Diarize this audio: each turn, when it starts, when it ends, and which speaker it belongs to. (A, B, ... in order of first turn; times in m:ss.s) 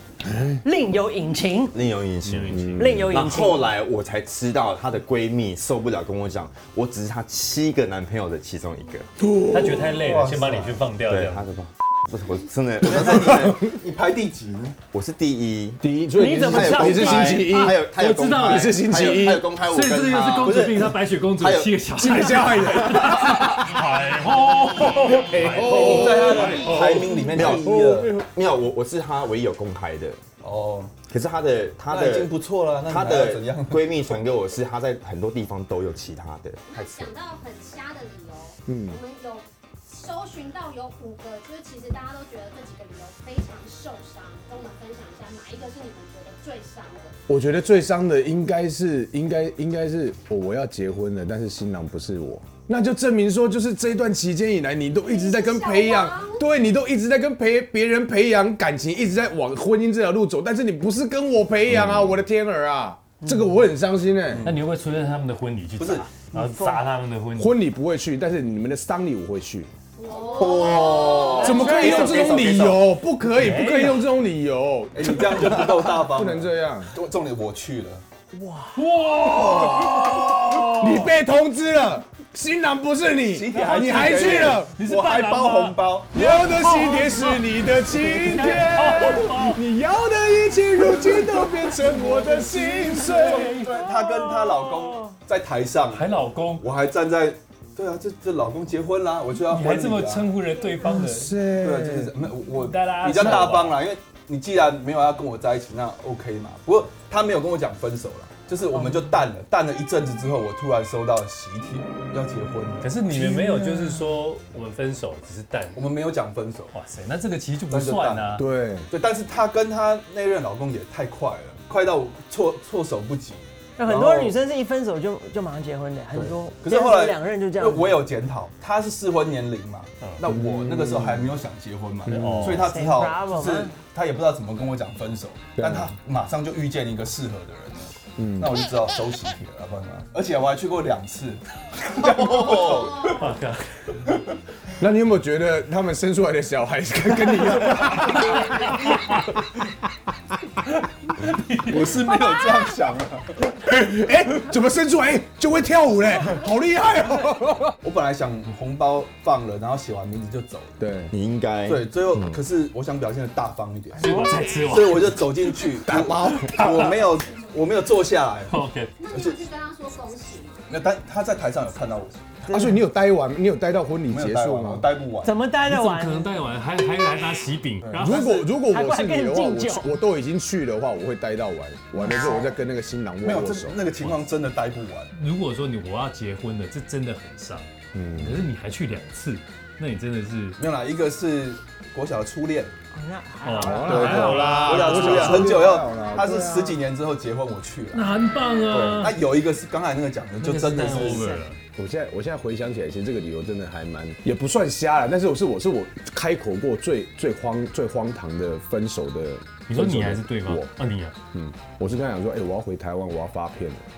0:00.6-0:01.8 A
0:01.7-0:09.1 B
0:02.2-0:03.6 C
0:02.5-0:03.1 D
0:02.8-0:03.7 A
0:09.2-0:09.9 D
0:09.4-0:11.5 C
0:10.0-0:10.9 E
0:11.0-0:13.4 B
0:12.8-0:14.8 E
0:14.9-0:15.8 B
0:15.8-0:19.5 D
0:16.2-0:17.4 A
0:16.5-0:21.7 B
0:17.8-0:26.9 C
0:22.0-0:24.0 D
0:25.0-0:28.3 D
0:25.6-0:28.2 E
0:26.8-0:30.2 B
0:30.4-0:31.1 E
0:31.0-0:32.3 B
0:31.9-0:34.2 E
0:32.9-0:37.1 B
0:36.6-0:47.2 F
0:38.7-0:39.0 D
0:47.3-1:04.5 D
0:55.0-0:56.5 F
1:03.2-1:03.6 A
1:04.4-1:07.6 C
1:05.8-1:06.1 E
1:06.3-1:06.8 A
1:07.4-1:09.7 D
1:10.0-1:12.0 F
1:10.2-1:10.7 E
1:10.4-1:11.5 B
1:11.1-1:12.3 A
1:11.4-1:16.9 D
1:11.4-1:12.8 E
1:13.3-1:14.1 C
1:15.0-1:18.0 E
1:18.3-1:18.9 A
1:18.8-1:21.1 C
1:19.2-1:24.8 D
1:20.0-1:20.3 A
1:23.3-1:26.1 E
1:23.7-1:29.6 C
1:26.1-1:33.5 D
1:31.7-1:32.4 A
1:31.9-1:33.9 C
1:33.2-1:40.3 E
1:33.7-1:35.2 A
1:35.9-1:36.7 C
1:39.5-1:41.4 C
1:40.8-1:42.1 D
1:41.6-1:52.9 E
1:42.5-1:43.8 C
1:52.8-1:55.9 C
1:53.1-1:54.0 A
1:55.8-1:56.7 E
1:56.7-1:58.4 C
1:57.7-1:58.4 E
1:58.4-1:58.9 D
1:58.9-2:04.4 E
2:03.8-2:08.0 A
2:06.2-2:23.3 E
2:10.3-2:11.3 D
2:12.1-2:12.7 D
2:12.1-2:12.7 C
2:12.6-2:13.8 A
2:15.6-2:15.9 D
2:18.2-2:18.5 D
2:22.4-2:22.7 B
2:22.7-2:23.2 F
2:23.2-2:23.7 C
2:24.8-2:28.9 D
2:31.2-2:31.6 C
2:31.6-2:33.4 E
2:33.5-2:37.8 D
2:37.8-2:40.8 E
2:40.8-2:41.1 D
2:41.1-2:42.4 B
2:41.7-2:44.1 E
2:44.0-2:45.4 C
2:44.0-2:44.4 A
2:44.7-2:49.4 E
2:45.8-2:46.9 D
2:48.5-2:49.0 C
2:49.0-2:50.7 F
2:50.7-2:52.4 E
2:52.5-2:52.8 A
2:52.5-2:54.9 D
2:54.1-2:55.3 E
2:55.2-2:56.4 A
2:55.7-2:58.2 C
2:57.8-2:58.3 E
2:58.0-3:03.8 D
2:58.1-3:00.0 A
3:02.0-3:02.5 A
3:03.2-3:05.1 E
3:05.1-3:07.7 C
3:07.9-3:08.4 D
3:08.2-3:10.6 C
3:10.6-3:12.7 E
3:12.9-3:16.5 A
3:13.4-3:15.3 C
3:13.6-3:16.8 D
3:14.6-3:18.1 E
3:17.9-3:19.2 C
3:18.7-3:21.3 E
3:20.4-3:21.6 C
3:20.9-3:21.5 A
3:21.8-3:30.7 D
3:29.7-3:31.2 C
3:31.3-3:33.8 D